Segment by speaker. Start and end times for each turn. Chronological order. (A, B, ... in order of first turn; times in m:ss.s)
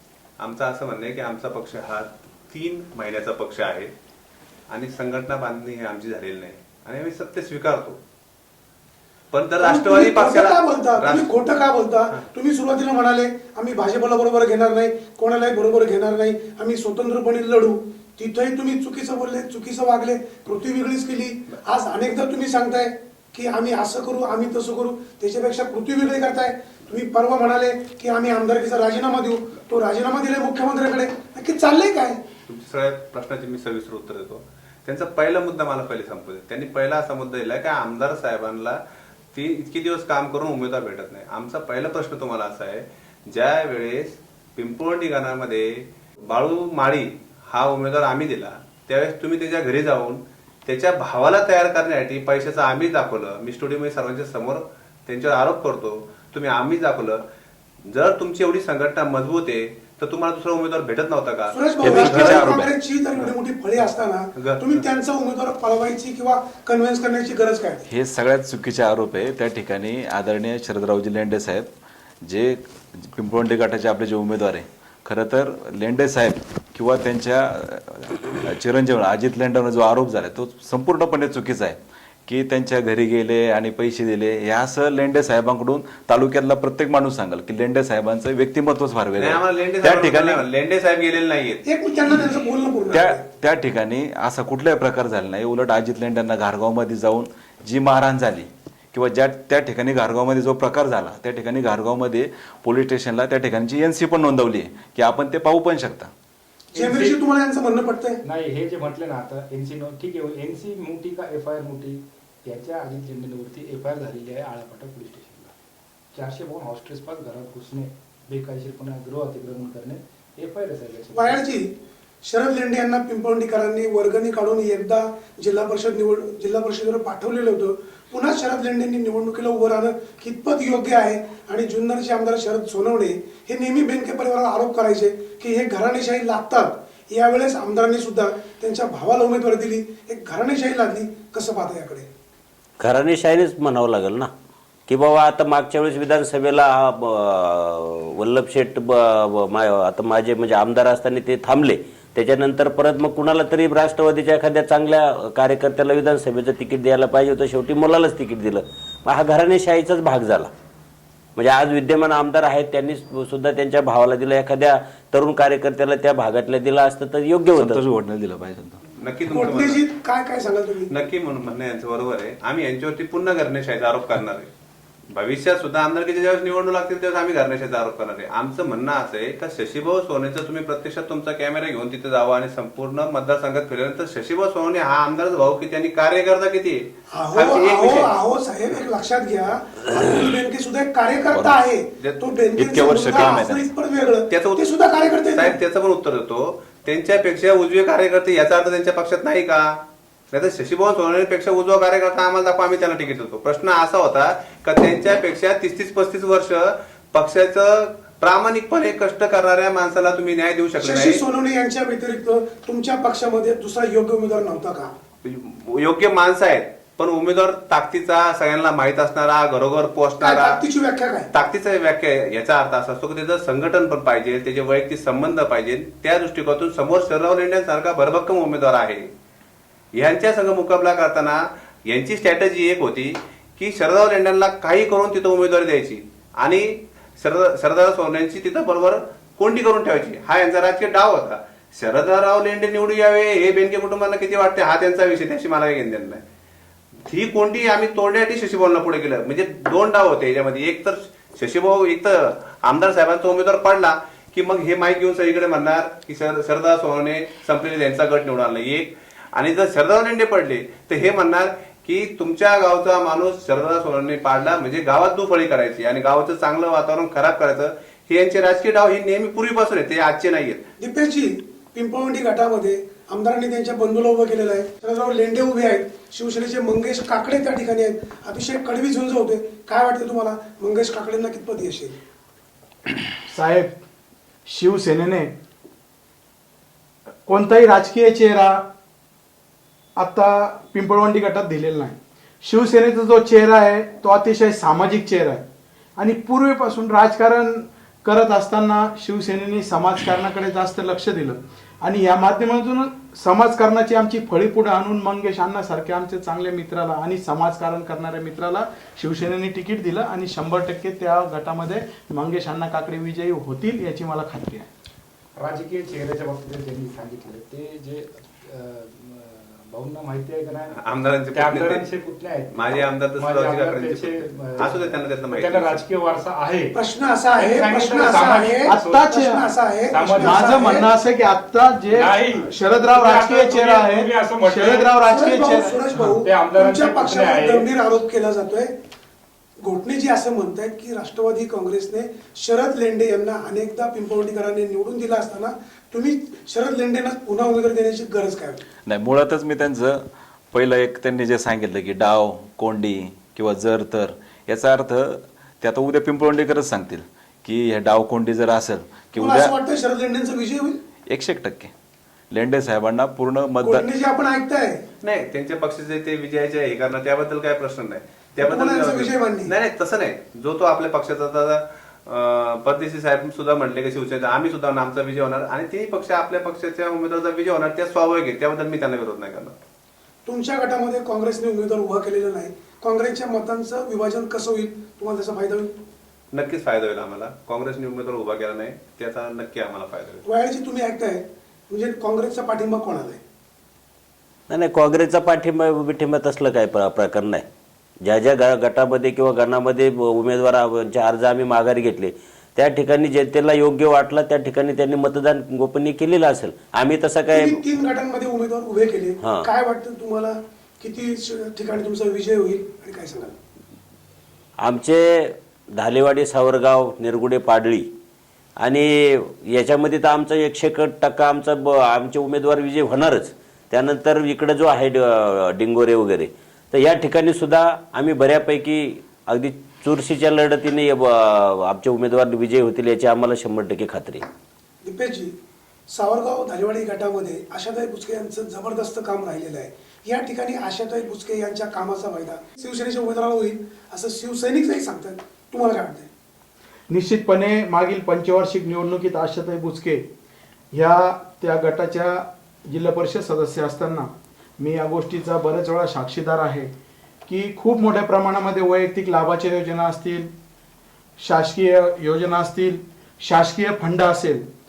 0:00.4-0:03.9 A
0:04.7-0:08.0 A
0:09.3-0:11.4 A
0:09.6-0:32.2 B
0:32.5-0:38.8 A
0:39.3-0:57.2 A
0:57.8-1:03.3 A
1:01.5-1:07.9 B
1:01.8-1:02.7 C
1:04.4-1:04.8 A
1:07.9-1:11.7 C
1:12.2-1:30.4 C
1:29.2-1:31.6 A
1:31.7-1:33.2 B
1:32.9-1:46.1 C
1:46.8-1:47.2 D
1:46.8-1:48.2 B
1:48.2-1:55.5 D
1:56.1-2:01.4 D
2:01.1-2:01.7 B
2:02.3-2:22.1 B
2:22.8-2:24.3 E
2:24.9-2:40.5 E
2:41.4-2:47.8 E
2:47.6-2:48.8 C
2:49.0-2:49.8 A
2:49.3-2:50.9 B
2:50.9-2:54.5 A
2:55.1-3:08.1 A
3:07.1-3:15.6 B
3:11.3-3:11.6 C
3:12.0-3:12.3 A
3:12.6-3:13.7 C
3:14.3-3:14.6 A
3:15.3-3:19.8 A
3:20.3-3:31.2 A
3:30.8-3:34.9 B
3:35.2-3:40.6 A
3:40.2-3:41.3 B
3:41.3-3:49.1 A
3:50.0-4:06.2 A
4:07.1-4:30.7 A
4:30.8-4:42.0 B
4:43.3-4:43.8 F
4:44.5-4:45.3 F
4:47.3-4:48.7 F
4:50.0-4:55.5 F
4:56.0-5:14.7 F
5:15.4-5:20.8 D
5:20.7-5:21.9 A
5:21.3-5:26.8 D
5:22.5-5:25.8 A
5:26.7-5:30.9 B
5:27.4-5:29.2 D
5:28.7-5:29.5 F
5:29.9-5:30.8 D
5:30.2-5:35.8 F
5:31.9-5:34.9 D
5:35.1-5:38.7 B
5:36.0-5:37.7 D
5:39.6-5:48.6 B
5:48.9-5:50.0 C
5:50.5-5:59.5 C
5:59.2-6:00.8 B
6:01.1-6:01.7 C
6:02.3-6:03.9 C
6:03.6-6:04.8 B
6:05.0-6:19.5 A
6:08.4-6:09.5 B
6:20.3-6:25.8 B
6:26.3-6:30.2 A
6:30.2-6:33.2 B
6:34.5-6:37.4 E
6:38.0-6:47.6 E
6:47.3-6:53.4 B
6:49.2-6:49.5 E
6:54.6-6:57.9 E
6:58.6-7:14.2 E
7:14.8-7:15.4 B
7:15.9-7:26.1 B
7:26.9-7:30.1 F
7:30.7-7:36.7 F
7:37.3-7:40.3 F
7:41.2-7:44.5 F